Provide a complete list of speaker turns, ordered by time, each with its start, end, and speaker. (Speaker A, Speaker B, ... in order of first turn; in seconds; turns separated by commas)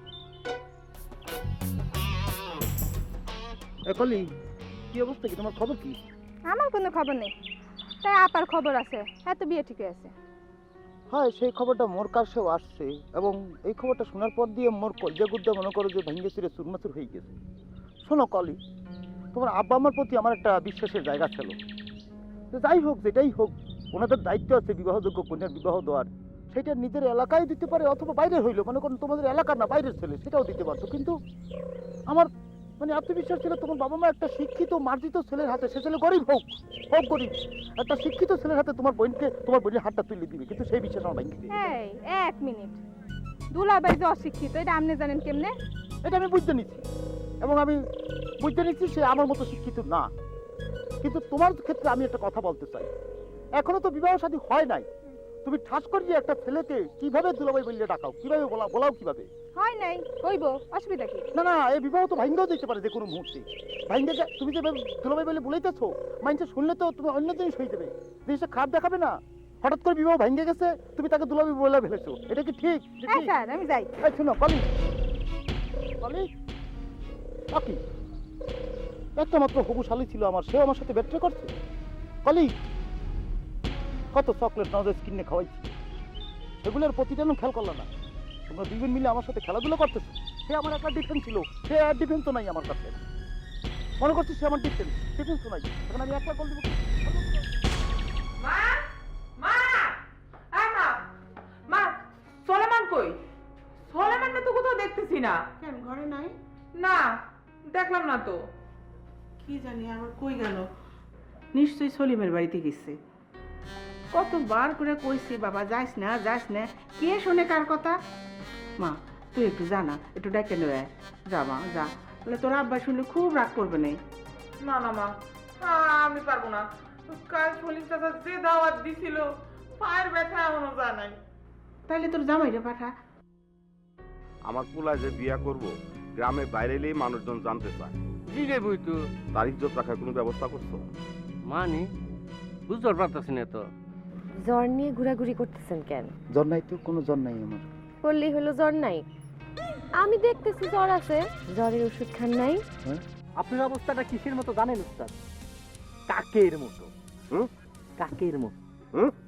Speaker A: 3.9-4.3, Speaker A: 4.9-6.0, Speaker B: 6.5-7.3, Speaker B: 8.0-10.1, Speaker A: 11.1-17.4, Speaker A: 18.1-18.6, Speaker A: 19.3-21.6, Speaker A: 22.5-31.1, Speaker A: 32.8-41.6, Speaker B: 41.5-42.8, Speaker B: 43.5-45.5, Speaker A: 46.0-46.8, Speaker A: 47.4-47.8, Speaker A: 48.4-50.1, Speaker A: 51.0-52.9, Speaker A: 53.6-54.9, Speaker A: 55.4-59.3, Speaker B: 59.5-61.2, Speaker A: 61.4-73.3, Speaker B: 73.1-73.9, Speaker A: 74.0-74.6, Speaker A: 76.0-76.2, Speaker A: 79.2-81.5, Speaker A: 82.2-82.5, Speaker A: 84.1-85.7, Speaker A: 86.6-87.9, Speaker A: 88.5-93.0, Speaker A: 94.0-96.8, Speaker C: 98.4-98.8, Speaker C: 99.4-100.0, Speaker C: 100.5-101.0, Speaker C: 101.7-103.2, Speaker C: 103.9-105.4, Speaker D: 105.6-106.3, Speaker C: 106.8-107.1, Speaker C: 107.7-108.4, Speaker D: 109.4-110.6, Speaker D: 111.5-112.9, Speaker D: 114.1-118.0, Speaker D: 118.8-124.0, Speaker C: 124.6-125.1, Speaker C: 125.6-131.2, Speaker D: 131.9-132.9, Speaker E: 134.5-135.7, Speaker E: 136.2-137.9, Speaker F: 138.3-139.0, Speaker E: 139.3-140.8, Speaker F: 141.5-141.8, Speaker F: 142.7-143.7, Speaker G: 144.4-146.1, Speaker A: 146.3-147.6, Speaker G: 148.0-149.0, Speaker G: 150.0-152.6